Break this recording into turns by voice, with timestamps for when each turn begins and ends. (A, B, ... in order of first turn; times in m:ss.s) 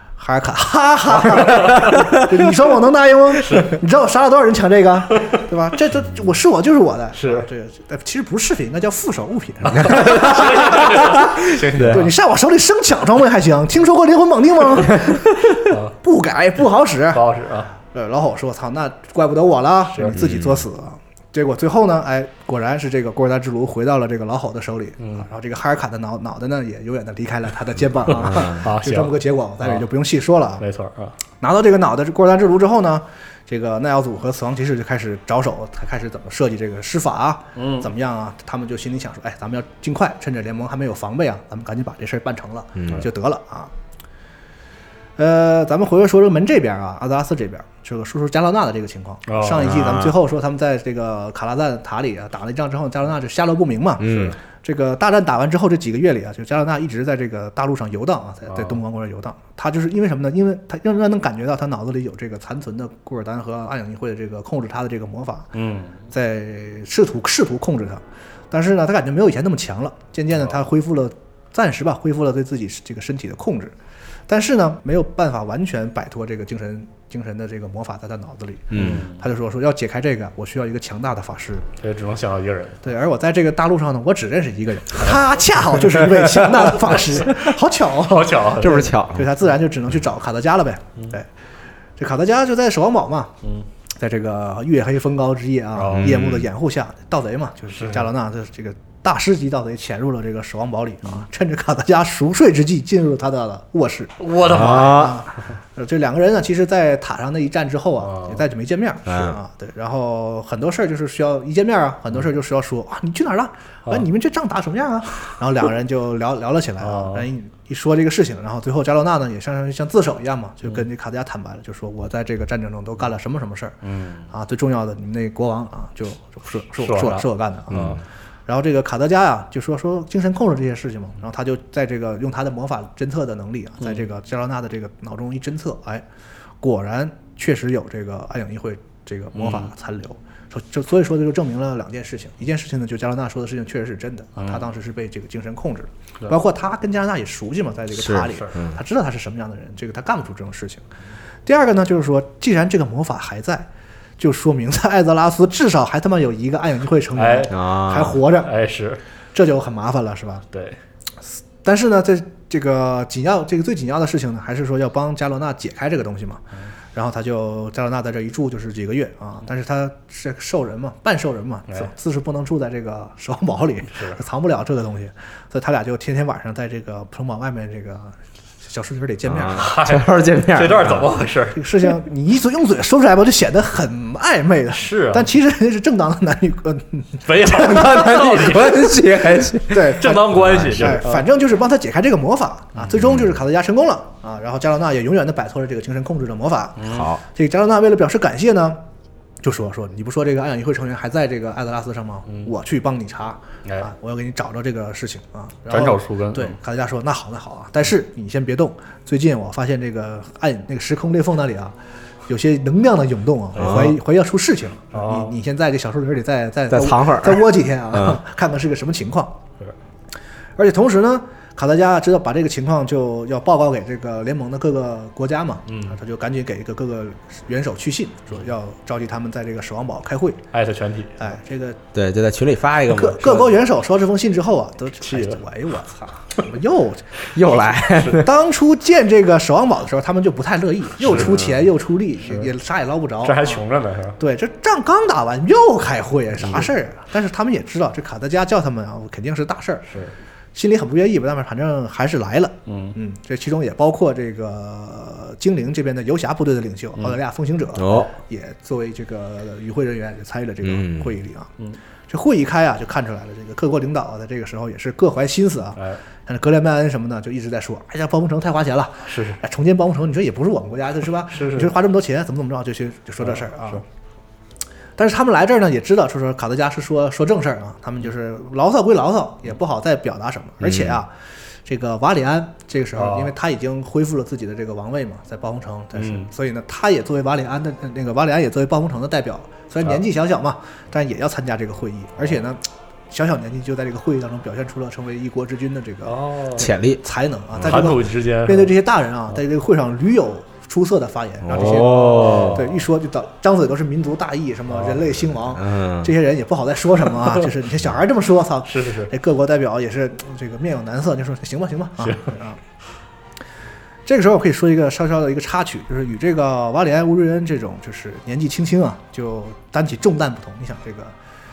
0:00.2-0:17.2 A
0:01.2-0:01.7 B
0:01.7-0:02.1 C
0:07.2-0:07.5 B
0:09.6-0:12.1 B
0:09.8-0:12.1 C
0:15.7-0:15.9 B
0:17.1-0:17.7 B
0:17.9-0:30.6 A
0:20.1-0:20.6 C
0:25.0-0:25.2 B
0:28.1-0:29.9 B
0:28.2-0:28.6 C
0:30.6-0:31.2 B
0:31.4-0:43.7 A
0:37.6-0:37.9 B
0:42.8-0:43.0 C
0:45.2-1:05.5 A
0:49.3-0:49.7 B
0:49.6-0:50.1 C
0:54.0-0:54.4 C
0:58.5-0:58.8 B
1:05.5-1:06.0 B
1:06.1-1:13.7 A
1:14.3-1:21.7 A
1:18.7-1:19.0 C
1:18.7-1:19.2 B
1:21.8-1:22.9 B
1:22.8-1:31.3 A
1:26.8-1:27.4 B
1:28.0-1:28.9 B
1:28.6-1:29.3 C
1:32.0-1:33.3 A
1:34.0-2:03.8 A
1:35.8-1:36.2 B
1:35.9-1:36.5 C
1:37.8-1:38.1 B
1:44.2-1:45.2 B
1:44.4-1:45.2 C
1:48.1-1:48.4 B
1:49.0-1:49.4 C
1:56.8-1:57.3 B
2:03.8-2:04.2 B
2:04.3-2:16.0 A
2:06.8-2:08.0 B
2:07.7-2:08.0 C
2:16.6-2:30.8 A
2:19.3-2:19.7 B
2:27.9-2:28.8 C
2:31.4-2:33.7 A
2:34.2-2:38.5 A
2:37.2-2:37.5 B
2:37.5-2:38.2 C
2:38.4-2:39.0 B
2:39.3-2:40.4 A
2:40.5-2:40.8 B
2:41.6-2:46.4 A
2:46.9-2:59.7 A
2:59.3-3:01.1 C
2:59.5-3:01.6 B
3:01.5-3:07.8 A
3:04.7-3:05.3 B
3:07.2-3:09.1 B
3:07.5-3:10.8 C
3:09.7-3:18.8 A
3:09.8-3:11.2 B
3:13.0-3:13.3 C
3:16.8-3:17.1 B
3:16.8-3:17.2 C
3:19.4-3:31.8 A
3:25.7-3:26.6 B
3:32.3-3:39.4 A
3:33.6-3:33.9 B
3:33.6-3:34.0 C
3:34.9-3:35.3 B
3:36.7-3:38.2 C
3:40.6-3:50.4 A
3:45.7-3:46.0 B
3:50.5-3:51.3 B
3:51.2-3:51.8 A
3:51.9-3:53.6 C
3:52.9-3:57.2 A
3:55.0-3:55.4 B
3:57.3-3:58.3 C
3:58.1-4:03.6 A
4:01.0-4:01.4 B
4:01.0-4:01.6 C
4:02.2-4:02.5 B
4:03.2-4:04.2 B
4:04.2-4:09.9 A
4:06.4-4:06.7 B
4:10.5-4:21.5 A
4:12.7-4:13.0 B
4:17.8-4:18.1 C
4:20.6-4:21.1 C
4:22.1-4:33.8 A
4:29.1-4:29.4 B
4:31.3-4:31.7 B
4:33.2-4:33.8 B
4:35.0-4:41.1 A
4:40.6-4:41.0 C
4:41.6-5:12.6 A
4:42.9-4:43.3 B
4:46.0-4:46.3 B
4:56.0-4:56.7 B
4:56.6-4:57.0 C
4:57.5-4:57.9 C
4:57.6-4:58.7 B
5:01.4-5:02.6 C
5:01.6-5:02.8 B
5:04.7-5:05.1 B
5:05.5-5:06.1 C
5:08.7-5:09.1 B
5:12.0-5:12.3 B
5:14.0-5:21.1 A